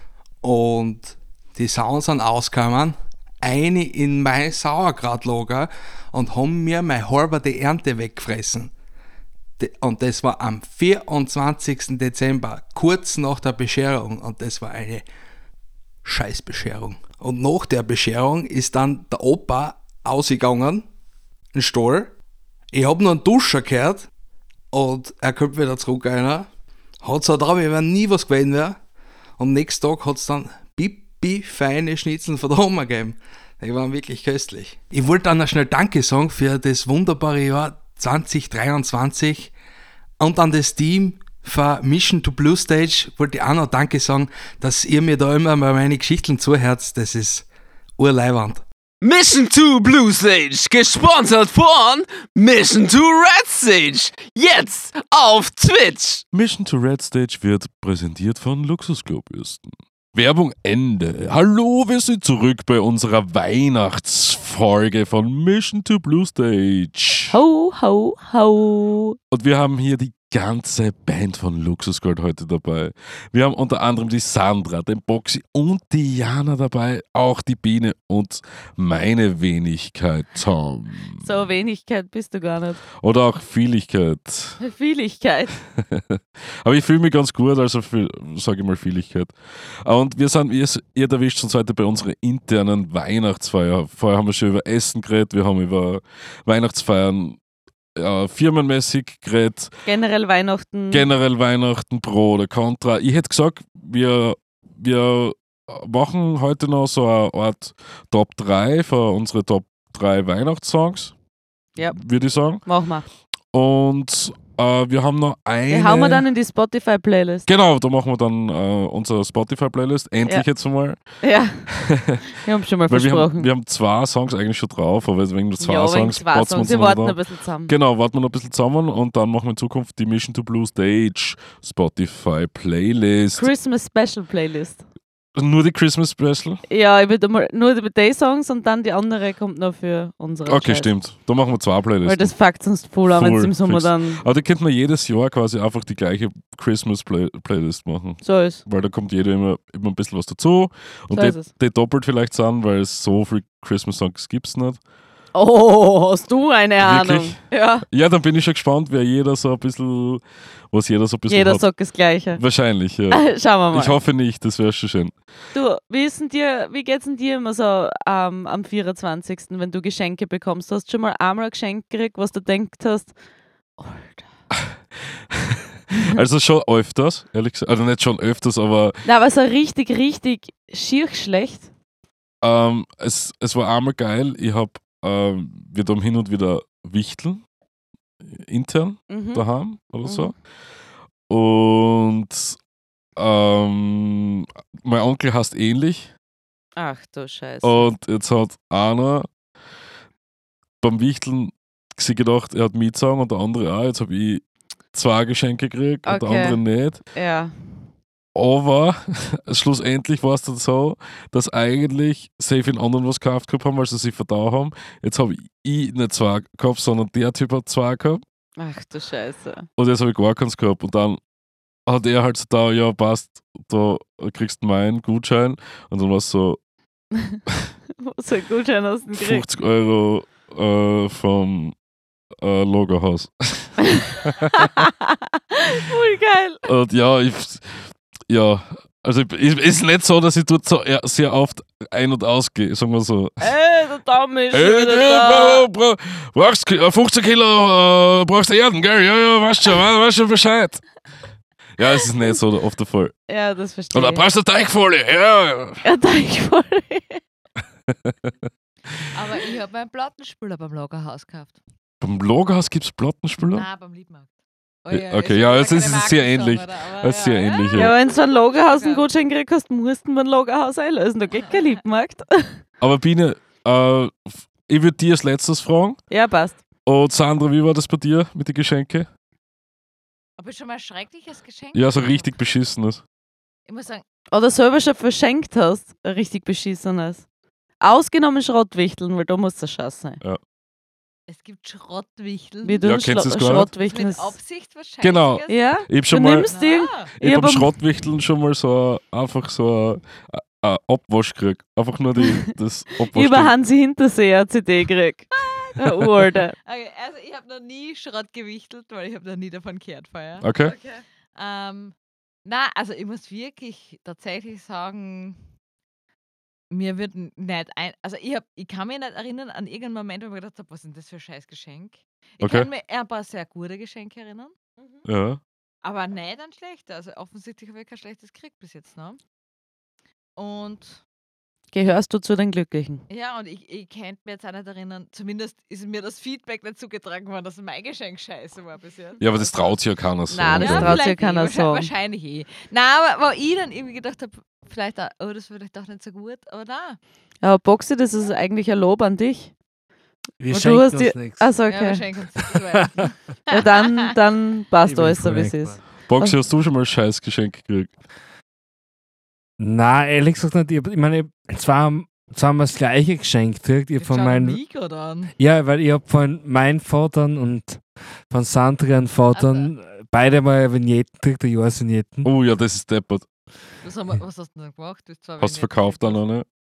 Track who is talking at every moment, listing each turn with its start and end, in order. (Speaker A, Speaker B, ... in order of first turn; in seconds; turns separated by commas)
Speaker A: 0.4-8.7, Speaker A: 9.6-15.1, Speaker A: 16.0-20.9, Speaker A: 21.5-22.1, Speaker A: 22.7-24.1, Speaker A: 24.7-26.5, Speaker A: 27.0-28.8, Speaker A: 29.4-39.5, Speaker A: 40.2-47.5, Speaker A: 48.0-48.6, Speaker B: 49.0-56.2, Speaker C: 56.3-67.4, Speaker D: 67.3-69.2, Speaker C: 69.3-81.3, Speaker D: 81.2-82.8, Speaker C: 83.0-84.6, Speaker D: 84.6-85.6, Speaker C: 85.8-97.4, Speaker C: 98.0-99.7, Speaker D: 99.9-101.1, Speaker C: 100.9-111.1, Speaker D: 111.8-112.0, Speaker C: 111.9-112.7, Speaker D: 112.6-113.0, Speaker C: 113.5-116.2, Speaker D: 115.7-117.5, Speaker C: 117.5-121.0, Speaker D: 121.2-121.7, Speaker C: 121.7-122.2, Speaker D: 122.3-123.5, Speaker C: 122.9-133.5, Speaker D: 125.6-127.7, Speaker D: 133.4-134.8, Speaker C: 135.4-136.6, Speaker D: 136.7-140.9, Speaker C: 140.5-142.3, Speaker D: 142.0-144.2, Speaker C: 143.1-154.8, Speaker D: 148.2-148.6, Speaker D: 151.1-151.5, Speaker D: 155.3-157.8, Speaker C: 156.8-157.4, Speaker C: 157.9-161.7, Speaker D: 161.3-162.4, Speaker C: 162.4-165.2, Speaker D: 163.1-164.0, Speaker D: 165.5-173.2, Speaker D: 173.8-174.2, Speaker C: 175.3-179.1, Speaker D: 179.1-181.7, Speaker C: 182.4-187.4, Speaker C: 188.3-190.4, Speaker D: 189.1-189.4, Speaker D: 190.0-190.3, Speaker C: 191.3-192.6, Speaker C: 193.2-196.1, Speaker D: 196.8-197.9, Speaker C: 197.6-199.3, Speaker C: 200.8-207.0, Speaker D: 206.1-207.5, Speaker C: 208.3-218.2, Speaker D: 218.6-219.7, Speaker C: 219.8-221.2, Speaker C: 221.9-226.6, Speaker D: 228.0-229.4, Speaker C: 229.2-231.8, Speaker C: 232.4-234.5, Speaker D: 234.5-236.6, Speaker C: 236.7-243.5, Speaker D: 243.4-245.7, Speaker C: 244.5-250.9, Speaker C: 251.8-253.2, Speaker D: 253.3-254.2, Speaker C: 253.9-255.8, Speaker D: 255.8-257.2, Speaker C: 257.9-258.3, Speaker E: 259.1-261.6, Speaker C: 262.0-263.7, Speaker E: 263.5-264.3, Speaker E: 264.9-269.1, Speaker C: 264.9-267.9, Speaker D: 267.8-272.6, Speaker C: 272.8-276.0, Speaker D: 276.1-276.6, Speaker C: 276.9-279.1, Speaker E: 280.4-282.3, Speaker C: 281.7-283.0, Speaker E: 283.7-284.0, Speaker D: 284.3-287.2, Speaker D: 287.8-290.2, Speaker E: 291.3-292.8, Speaker D: 292.6-294.3, Speaker C: 292.8-293.7, Speaker E: 293.8-295.6, Speaker C: 295.0-296.5, Speaker D: 295.5-297.7, Speaker E: 296.5-297.1, Speaker C: 297.2-303.5, Speaker D: 303.0-306.6, Speaker E: 305.4-305.8, Speaker E: 306.6-315.4, Speaker C: 310.4-310.8, Speaker E: 316.7-324.6, Speaker C: 322.4-322.7, Speaker C: 325.1-325.4, Speaker E: 325.8-329.2, Speaker E: 330.4-331.0, Speaker D: 331.7-333.0, Speaker E: 333.1-339.8, Speaker C: 339.2-341.0, Speaker D: 340.3-341.9, Speaker E: 340.5-347.0, Speaker D: 347.4-349.5, Speaker F: 350.4-351.5, Speaker D: 350.5-352.0, Speaker E: 351.7-353.9, Speaker D: 353.5-356.4, Speaker F: 354.9-355.8, Speaker C: 356.1-357.9, Speaker F: 359.6-364.6, Speaker E: 364.0-365.3, Speaker F: 365.4-372.3, Speaker E: 369.3-369.7, Speaker C: 372.2-373.2, Speaker E: 373.8-376.2, Speaker C: 375.4-376.5